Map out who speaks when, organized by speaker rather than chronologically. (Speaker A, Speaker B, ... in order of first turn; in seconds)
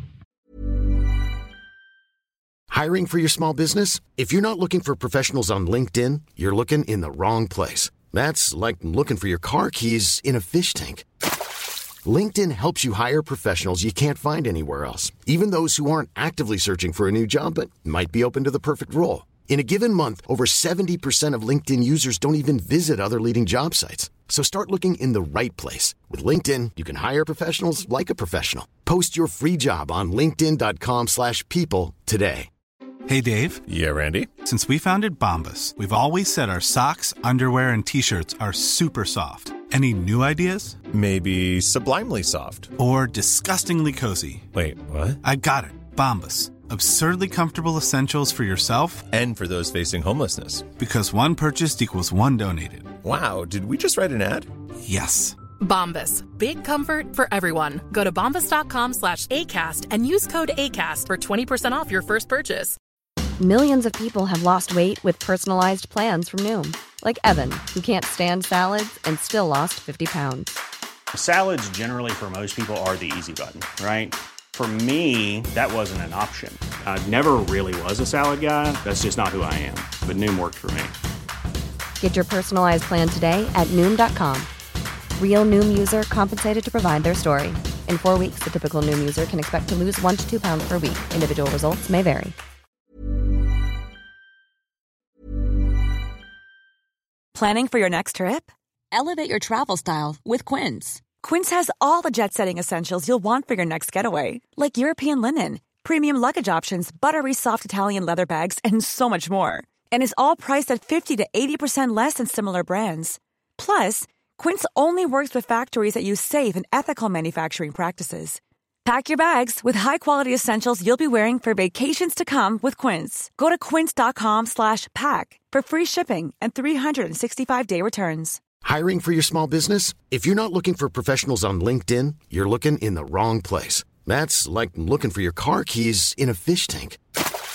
Speaker A: 2.7-11.1, 12.0-32.5, 128.6-137.0
Speaker B: 33.1-33.6, 34.3-40.8, 42.8-44.5, 45.2-49.1, 50.7-52.9, 54.8-55.4
Speaker C: 33.7-34.3, 40.9-42.7, 44.5-45.2, 49.1-50.7, 53.0-54.5
Speaker D: 55.6-62.8
Speaker E: 63.4-70.6, 82.0-84.5, 85.2-92.3
Speaker F: 71.1-80.9
Speaker G: 97.3-128.4